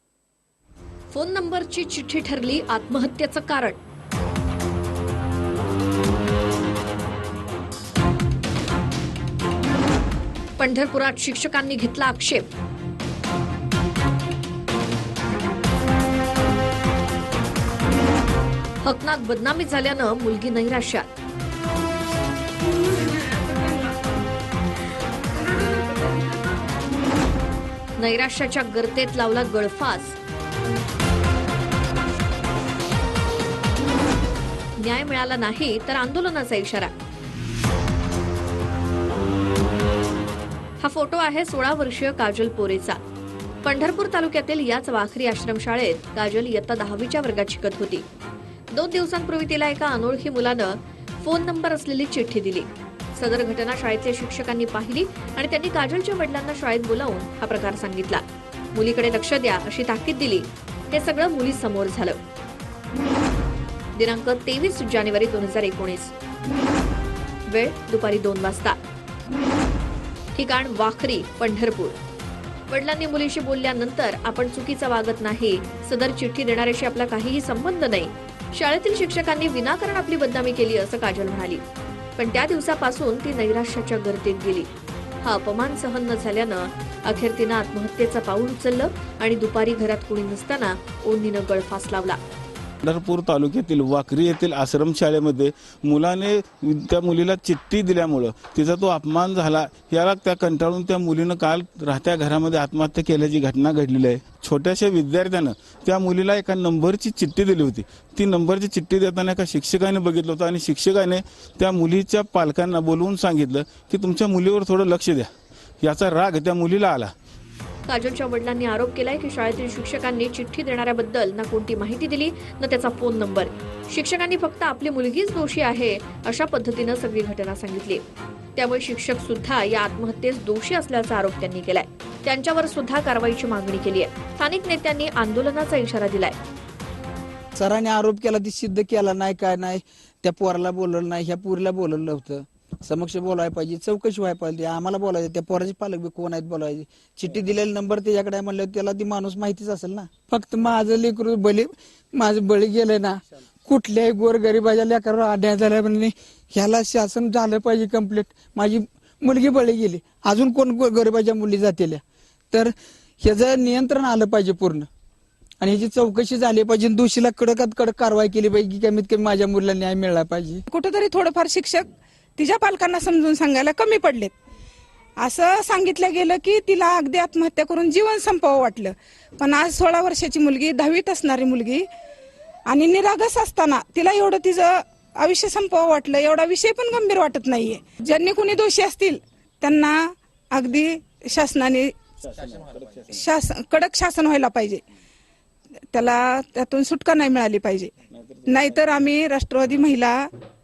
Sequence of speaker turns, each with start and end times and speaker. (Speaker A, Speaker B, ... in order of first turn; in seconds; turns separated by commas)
Speaker A: 1.1-3.8, Speaker A: 10.6-12.5, Speaker A: 18.8-21.1, Speaker B: 22.7-23.9, Speaker B: 25.3-26.8, Speaker A: 28.0-30.2, Speaker A: 34.8-36.9, Speaker A: 40.8-43.0, Speaker A: 43.6-48.0, Speaker A: 48.7-58.2, Speaker A: 58.7-62.2, Speaker A: 64.0-66.1, Speaker A: 67.5-68.8, Speaker A: 70.3-72.0, Speaker A: 72.7-81.6, Speaker A: 82.2-84.7, Speaker A: 85.2-92.2, Speaker C: 92.8-115.3, Speaker C: 115.8-117.1, Speaker A: 117.9-128.0, Speaker A: 128.6-136.4, Speaker D: 137.6-164.9, Speaker D: 165.6-170.6, Speaker B: 170.7-174.3, Speaker B: 175.2-181.8, Speaker B: 182.7-189.9, Speaker B: 190.5-191.9, Speaker C: 192.2-193.2, Speaker B: 193.1-194.8, Speaker B: 195.9-197.9, Speaker C: 198.1-198.9, Speaker B: 198.4-200.1